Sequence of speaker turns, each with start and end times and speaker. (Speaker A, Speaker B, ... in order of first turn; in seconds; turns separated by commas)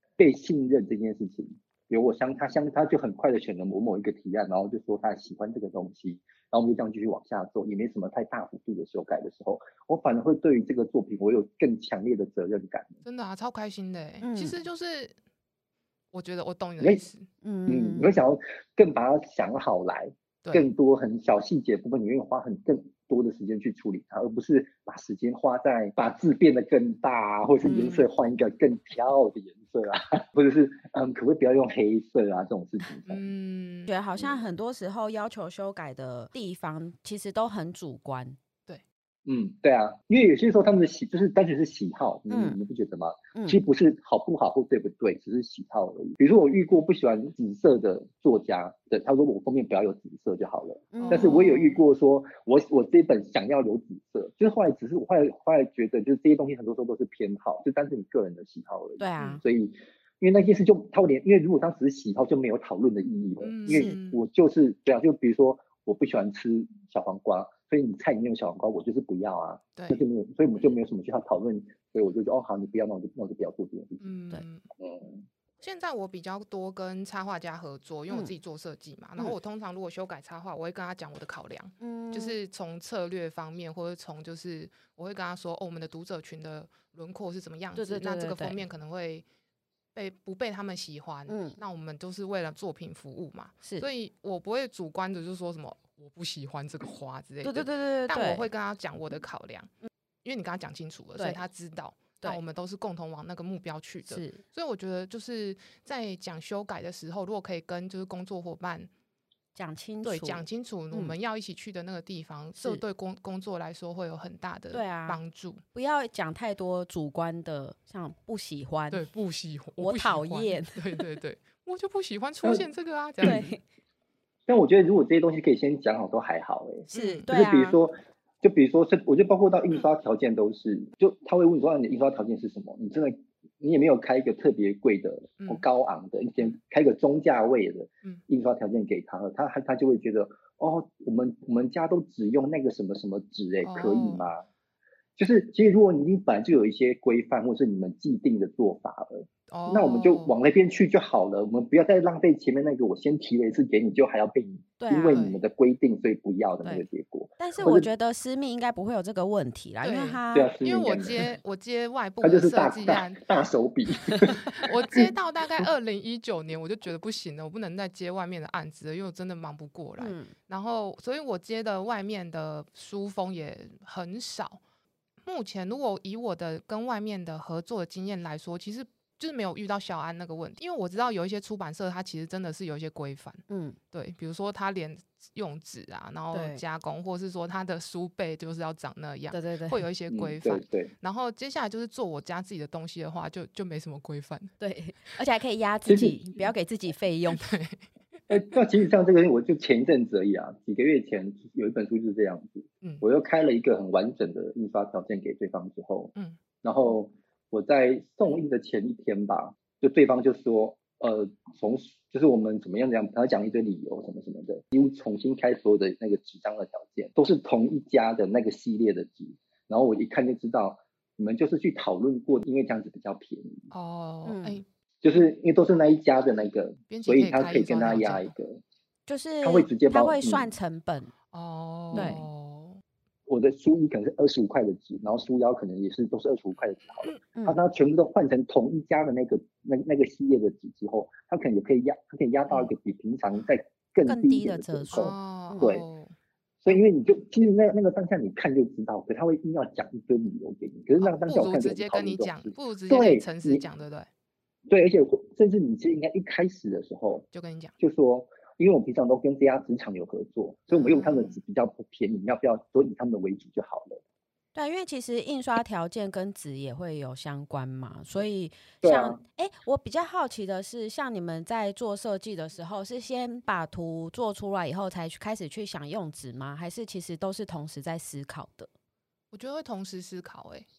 Speaker A: 0.2-13.0, Speaker B: 13.1-15.2, Speaker C: 14.2-14.6, Speaker B: 16.1-17.3, Speaker C: 17.4-18.1, Speaker A: 17.7-33.2, Speaker B: 20.4-20.7, Speaker C: 27.6-28.1, Speaker B: 33.1-33.9, Speaker C: 33.9-38.4, Speaker A: 34.2-34.4, Speaker A: 39.3-74.1, Speaker C: 42.3-42.6, Speaker C: 43.3-43.6, Speaker C: 50.9-51.8, Speaker B: 51.0-51.5, Speaker C: 59.0-59.4, Speaker B: 63.4-64.2, Speaker C: 63.7-64.0, Speaker B: 69.8-70.0, Speaker B: 74.0-74.7, Speaker A: 74.8-75.2, Speaker B: 75.6-89.2, Speaker C: 81.8-82.4, Speaker C: 87.8-88.6, Speaker B: 90.0-99.7, Speaker C: 91.3-91.6, Speaker C: 97.4-98.5, Speaker B: 100.2-108.9, Speaker C: 101.2-101.4, Speaker C: 104.1-104.4, Speaker C: 109.5-111.2, Speaker B: 110.0-115.6, Speaker C: 112.6-112.8, Speaker C: 114.7-115.2, Speaker C: 115.7-119.0, Speaker B: 118.9-123.5, Speaker C: 119.8-121.0, Speaker C: 123.2-123.6, Speaker A: 124.5-144.4, Speaker B: 126.9-127.3, Speaker C: 126.9-127.8, Speaker B: 143.6-144.3, Speaker A: 145.2-157.9, Speaker B: 149.5-150.4, Speaker C: 154.8-155.2, Speaker B: 155.1-155.4, Speaker C: 157.4-160.5, Speaker B: 159.8-163.2, Speaker A: 160.3-161.3, Speaker A: 162.2-165.1, Speaker B: 164.4-174.6, Speaker C: 170.0-170.3, Speaker B: 175.2-194.5, Speaker C: 183.5-183.8, Speaker C: 186.3-186.6, Speaker C: 189.3-189.8, Speaker A: 190.1-190.9, Speaker C: 194.6-197.5, Speaker A: 195.9-196.2, Speaker B: 197.3-197.8, Speaker A: 198.3-223.7, Speaker B: 223.7-224.7, Speaker C: 224.2-224.6, Speaker A: 225.0-228.6, Speaker B: 226.9-228.3, Speaker C: 229.1-231.1, Speaker A: 229.4-230.5, Speaker B: 231.3-232.8, Speaker A: 231.9-232.2, Speaker C: 231.9-232.2, Speaker A: 233.3-245.9, Speaker C: 237.3-237.6, Speaker C: 244.0-245.8, Speaker B: 244.9-246.1, Speaker A: 246.6-253.7, Speaker B: 251.0-254.1, Speaker A: 254.7-257.3, Speaker B: 257.3-257.7, Speaker A: 257.8-264.0, Speaker B: 260.7-261.4, Speaker C: 264.6-278.7, Speaker A: 268.8-269.2, Speaker B: 279.3-280.7